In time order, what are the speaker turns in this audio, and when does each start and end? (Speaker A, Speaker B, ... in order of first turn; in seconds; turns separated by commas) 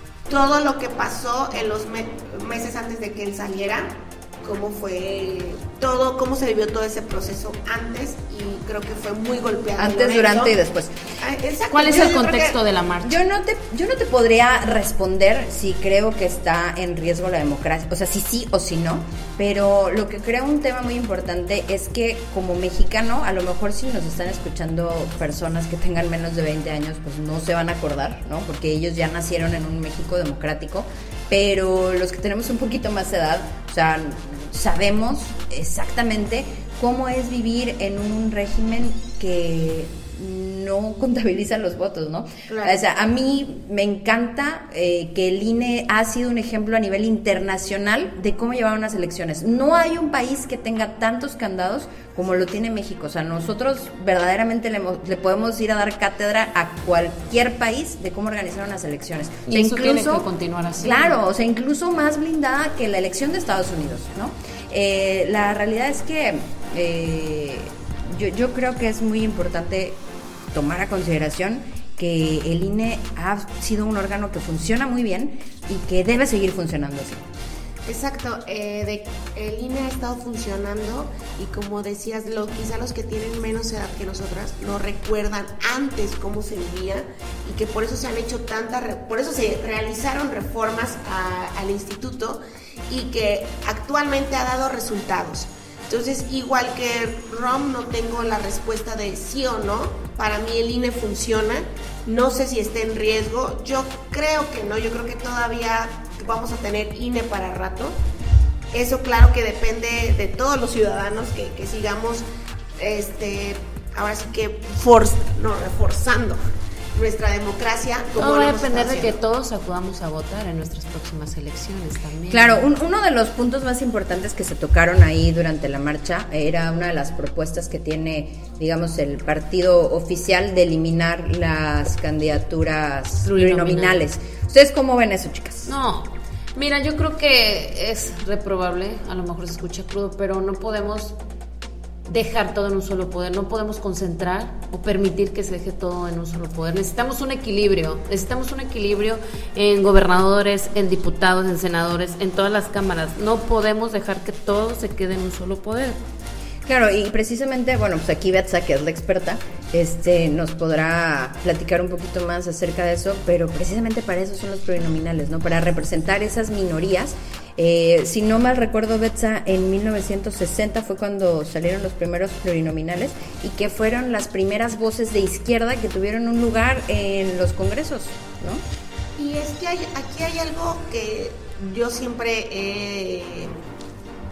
Speaker A: 0.3-10.6, Speaker B: 9.8-10.9, Speaker A: 11.2-12.6, Speaker C: 11.7-13.2, Speaker B: 13.0-60.2, Speaker A: 42.5-42.8, Speaker C: 59.5-61.2, Speaker B: 60.8-70.0, Speaker B: 70.5-77.2, Speaker A: 77.8-108.0, Speaker A: 108.7-112.2, Speaker A: 112.8-116.4, Speaker A: 116.9-119.2, Speaker C: 118.2-122.7, Speaker B: 122.3-135.7, Speaker C: 133.2-134.0, Speaker C: 135.6-141.2, Speaker C: 142.1-156.0, Speaker B: 156.6-178.6, Speaker A: 179.2-183.5